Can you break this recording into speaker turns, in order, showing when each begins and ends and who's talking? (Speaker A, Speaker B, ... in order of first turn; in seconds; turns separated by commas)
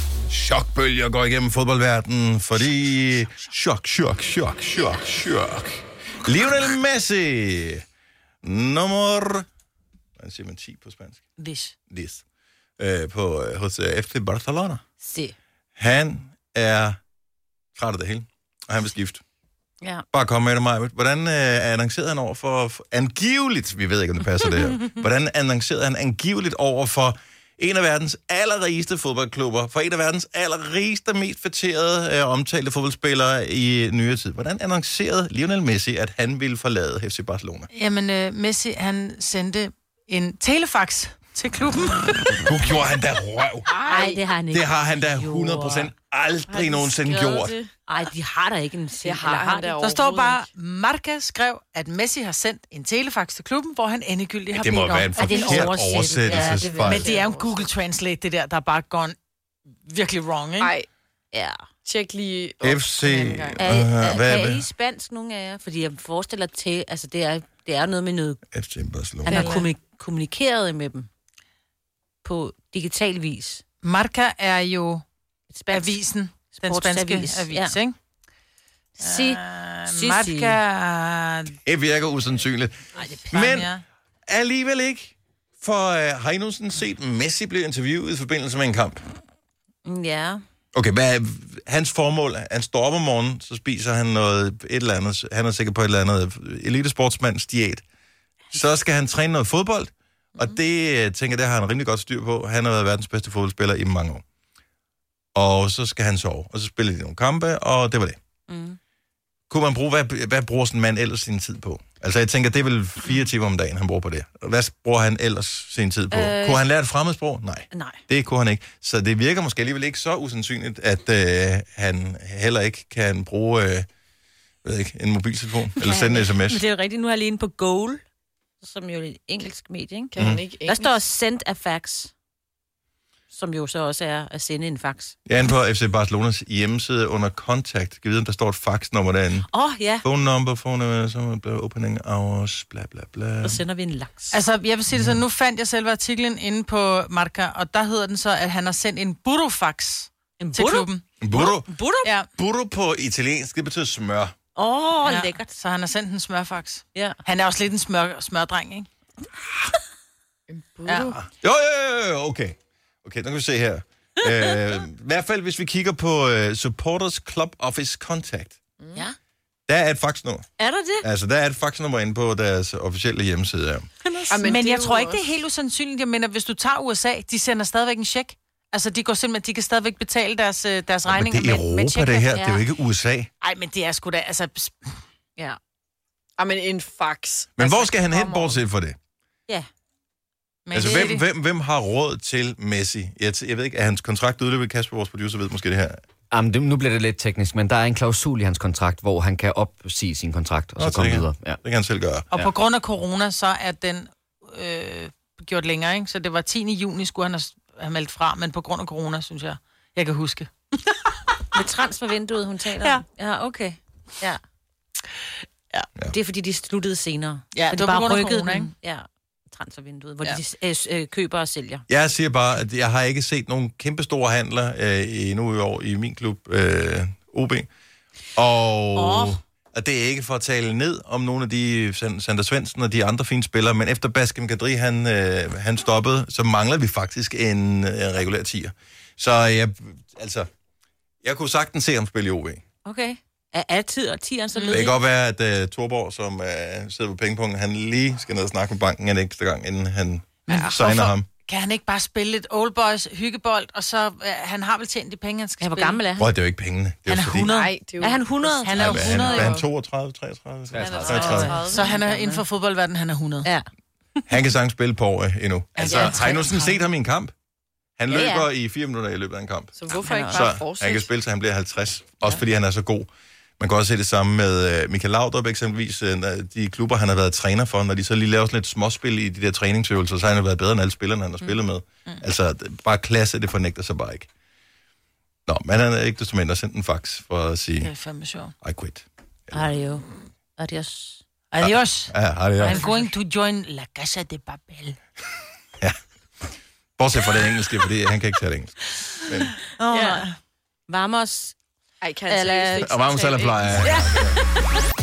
Speaker A: 0.3-7.8, Speaker A: 8.4-9.5, Speaker A: 10.2-11.2, Speaker B: 11.4-11.7, Speaker A: 11.9-12.2, Speaker A: 12.8-14.8, Speaker C: 15.0-15.3, Speaker A: 15.8-17.0, Speaker A: 17.8-19.2, Speaker A: 20.1-37.7, Speaker B: 37.7-42.5, Speaker A: 42.4-47.5, Speaker D: 43.7-44.2, Speaker B: 43.8-44.1, Speaker C: 43.9-45.9, Speaker D: 46.5-47.7, Speaker B: 46.7-47.0, Speaker C: 47.9-49.8, Speaker D: 49.0-50.5, Speaker B: 49.7-59.2, Speaker A: 54.5-57.1, Speaker C: 55.1-57.3, Speaker D: 57.0-57.7, Speaker B: 59.9-60.8, Speaker D: 60.6-60.9, Speaker C: 61.3-61.6, Speaker D: 61.8-63.6, Speaker A: 62.6-64.7, Speaker C: 63.6-68.4, Speaker A: 68.5-69.6, Speaker D: 69.3-69.6, Speaker C: 69.3-71.1, Speaker B: 69.3-69.7, Speaker C: 72.2-73.6, Speaker B: 73.8-75.0, Speaker C: 75.5-76.0, Speaker B: 75.7-78.0, Speaker C: 76.5-77.8, Speaker C: 79.0-80.6, Speaker B: 79.0-81.6, Speaker A: 81.7-82.8, Speaker B: 83.0-83.8, Speaker A: 83.3-83.7, Speaker A: 84.3-89.0, Speaker C: 89.9-90.4, Speaker A: 90.7-97.8, Speaker A: 98.5-104.2, Speaker A: 105.3-108.2, Speaker C: 108.5-108.8, Speaker A: 109.5-123.9, Speaker C: 116.1-116.6, Speaker C: 117.7-118.0, Speaker A: 124.6-126.6, Speaker C: 125.8-128.0, Speaker C: 128.6-132.1, Speaker D: 130.1-130.9, Speaker A: 130.2-130.4, Speaker C: 133.3-135.2, Speaker A: 135.3-139.5, Speaker C: 139.5-140.1, Speaker A: 140.0-143.6, Speaker C: 143.4-144.4, Speaker B: 144.3-151.0, Speaker A: 144.9-145.2, Speaker C: 150.4-152.1, Speaker A: 151.2-151.7, Speaker B: 152.0-152.3, Speaker A: 152.4-154.3, Speaker C: 154.6-155.5, Speaker B: 155.0-158.9, Speaker C: 156.9-157.2, Speaker B: 160.5-161.2, Speaker D: 160.6-161.1, Speaker A: 161.1-168.6, Speaker A: 169.7-170.5, Speaker C: 170.6-171.1, Speaker A: 171.0-173.9, Speaker C: 174.1-174.6, Speaker D: 174.3-175.3, Speaker B: 174.3-182.5, Speaker A: 181.1-183.3, Speaker C: 182.4-182.6, Speaker B: 183.4-185.0, Speaker D: 186.4-188.6, Speaker B: 187.4-188.2, Speaker A: 187.6-189.0, Speaker B: 190.7-191.2, Speaker A: 190.7-196.0, Speaker C: 190.8-191.2, Speaker E: 196.3-201.6, Speaker A: 200.8-202.3, Speaker B: 202.3-211.1, Speaker C: 211.5-214.4, Speaker C: 216.1-221.8, Speaker B: 217.5-218.7, Speaker A: 221.9-227.7, Speaker A: 228.4-240.5, Speaker C: 228.9-229.4, Speaker A: 241.2-242.6, Speaker C: 242.8-245.0, Speaker B: 244.6-244.8, Speaker A: 244.7-251.3, Speaker B: 250.5-256.0, Speaker C: 255.6-256.3, Speaker A: 256.2-257.5, Speaker B: 257.1-257.5, Speaker C: 257.4-259.6, Speaker D: 257.5-258.3, Speaker B: 258.3-259.6, Speaker A: 258.8-261.7, Speaker D: 259.1-259.6, Speaker E: 260.7-261.6, Speaker B: 260.8-263.5, Speaker C: 260.9-262.4, Speaker D: 261.4-261.9, Speaker A: 264.3-267.3, Speaker B: 265.8-266.8, Speaker C: 265.8-266.4, Speaker A: 268.0-269.7, Speaker C: 268.1-268.5, Speaker D: 269.8-271.1, Speaker C: 269.9-270.5, Speaker A: 270.3-273.1, Speaker A: 273.6-284.3, Speaker A: 285.5-287.9, Speaker B: 287.8-288.5, Speaker A: 288.6-289.8, Speaker C: 289.5-291.2, Speaker B: 291.5-295.0, Speaker A: 291.6-292.8, Speaker A: 297.0-299.6, Speaker C: 299.8-300.4, Speaker D: 299.9-300.2, Speaker B: 300.0-300.2, Speaker C: 300.9-301.6, Speaker D: 302.0-303.9, Speaker C: 302.3-303.0, Speaker A: 302.8-304.4, Speaker B: 302.9-303.5, Speaker C: 303.8-304.2